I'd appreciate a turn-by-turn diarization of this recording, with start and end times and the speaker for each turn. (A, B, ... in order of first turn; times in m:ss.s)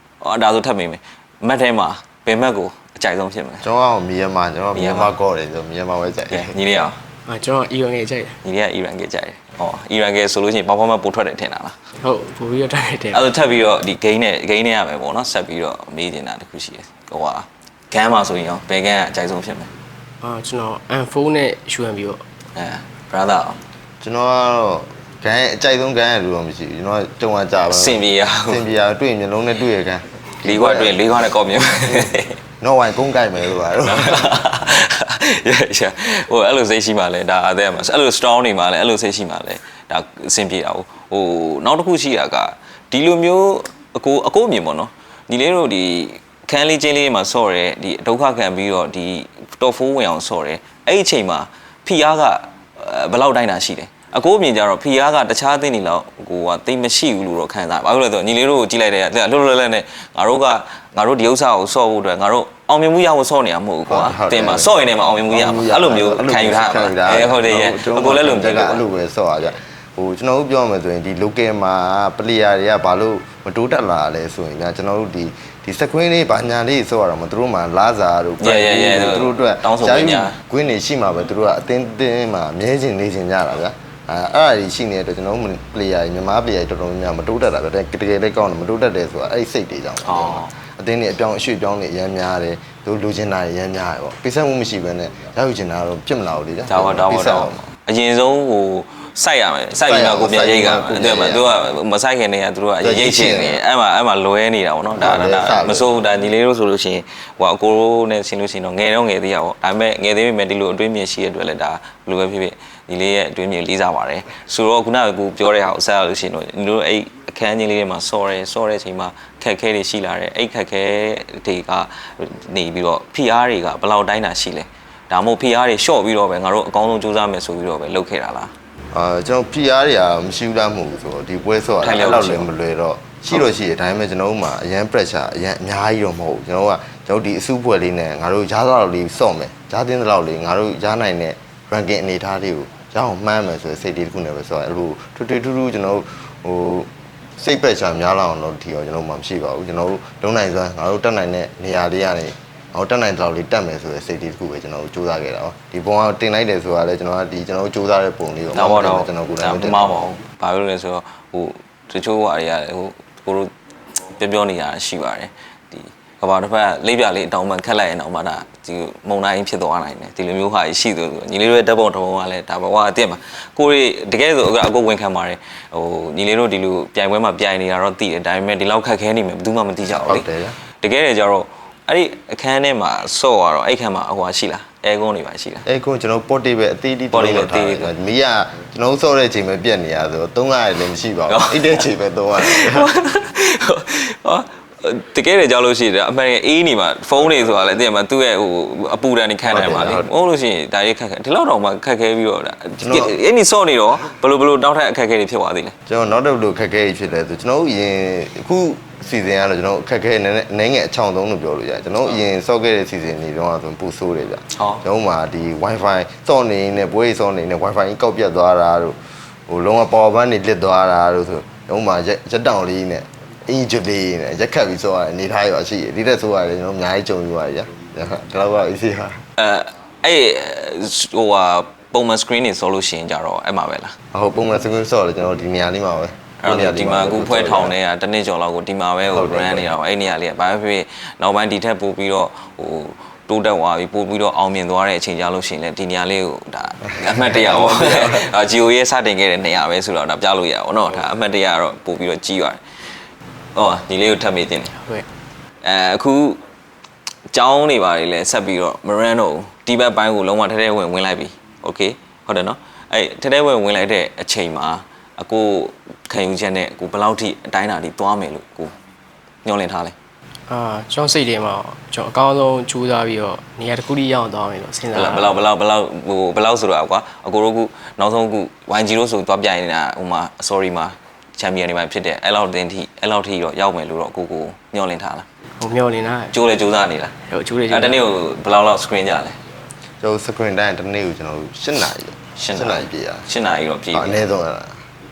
0:00.2-0:03.6 A
0:03.6-0:06.5 B
0:04.7-0:05.1 A
0:06.3-0:07.0 A
0:07.3-0:08.4 C
0:08.4-0:11.8 A
0:12.0-0:13.2 C
0:13.1-0:19.7 A
0:20.2-0:22.2 C
0:22.5-0:23.6 A
0:24.0-0:31.0 B
0:27.7-0:28.6 A
0:30.4-0:32.4 A
0:32.6-0:34.3 B
0:33.8-1:08.8 A
1:03.9-1:04.7 B
1:05.3-1:37.6 B
1:18.4-1:20.4 A
1:30.0-1:30.5 A
1:36.7-2:08.5 A
1:39.8-1:41.4 B
1:42.8-1:43.6 B
1:44.9-1:45.9 B
2:08.9-2:39.9 B
2:11.8-2:12.5 A
2:38.5-3:00.2 A
3:00.0-3:00.6 B
3:00.8-3:05.6 A
3:05.6-3:12.9 B
3:07.1-3:07.9 A
3:11.3-3:11.8 A
3:12.4-3:25.7 A
3:19.5-3:20.1 B
3:22.8-3:23.1 B
3:25.9-3:39.0 B
3:34.5-3:34.8 A
3:39.5-3:49.2 B
3:49.4-3:54.0 A
3:54.1-3:57.7 B
3:56.4-4:12.9 A
3:59.1-3:59.7 B
4:07.2-4:08.2 B
4:13.5-4:14.7 A
4:14.8-4:15.0 C
4:15.6-4:16.4 A
4:17.3-4:28.7 A
4:29.4-4:29.9 A
4:30.5-4:35.4 C
4:34.9-4:45.2 A
4:45.6-4:46.3 C
4:46.3-4:47.1 A
4:47.3-4:48.0 C
4:47.7-4:49.4 A
4:50.0-4:53.3 B
4:52.4-4:54.2 A
4:53.9-4:54.8 B